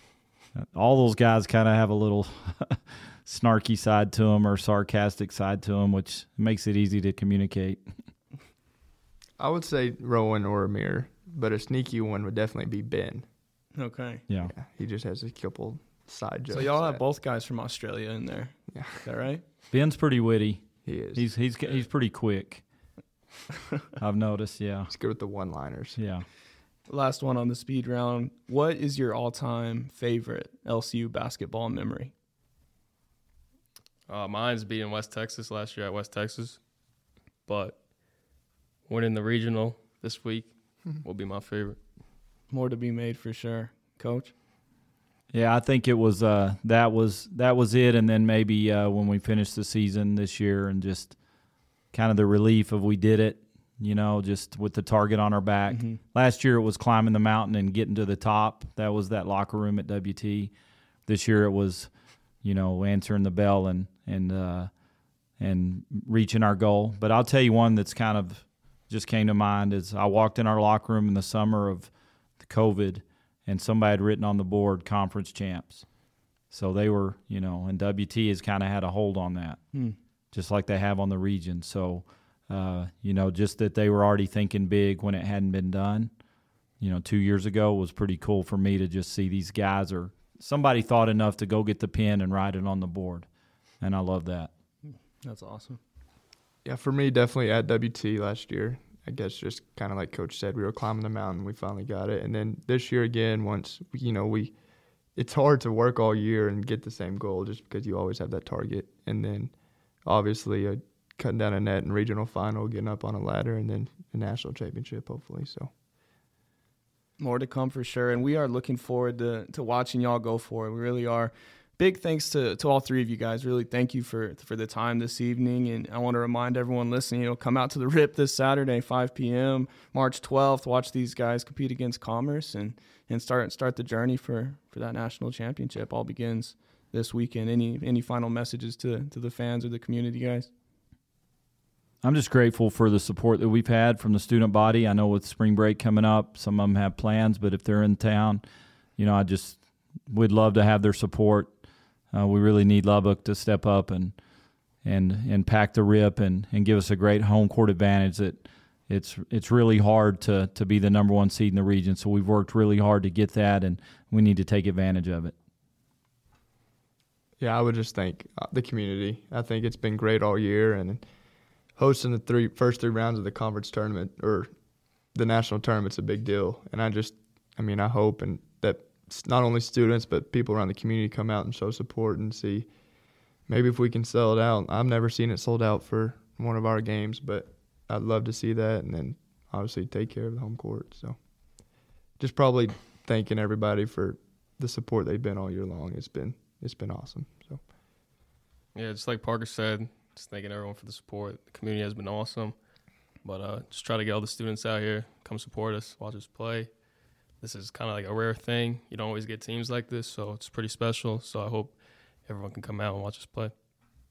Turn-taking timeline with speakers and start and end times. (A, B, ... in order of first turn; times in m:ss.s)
0:00.6-0:07.8 A
0:09.4-0:13.3 B
0:13.8-0:14.2 C
0:14.3-0:14.5 A
0:14.4-0:17.0 B
0:16.5-0:19.4 C
0:18.7-0:19.0 B
0:19.7-0:22.6 A
0:20.8-0:21.2 B
0:24.0-0:24.9 A
0:24.9-0:26.0 B
0:26.0-0:26.3 A
0:26.9-0:32.1 C
0:34.1-0:36.6 D
0:37.5-0:37.8 D
0:38.9-0:41.8 D
0:42.5-0:44.3 C
0:45.3-0:51.2 A
0:51.9-1:00.5 A
0:55.7-0:56.0 C
1:01.1-1:01.9 A
1:02.4-1:04.7 A
1:05.4-1:11.9 A
1:12.4-1:15.8 A
1:16.5-1:19.6 A
1:20.3-1:26.1 A
1:26.8-1:33.3 A
1:33.8-1:34.5 A
1:35.2-1:35.8 C
1:36.6-1:44.5 B
1:45.2-1:49.5 B
1:50.1-1:55.7 B
1:57.2-2:20.5 C
2:22.0-2:28.4 A
2:29.0-2:29.6 A
2:30.1-2:31.5 A
2:32.1-2:34.2 A
2:34.8-2:45.3 A
2:47.4-2:51.0 B
2:51.8-2:54.5 B
2:55.1-3:02.7 B
3:03.5-3:11.2 B
3:12.2-3:17.6 B
3:18.8-3:22.6 D
3:23.2-3:26.7 D
3:27.4-3:31.7 D
3:32.3-3:33.5 D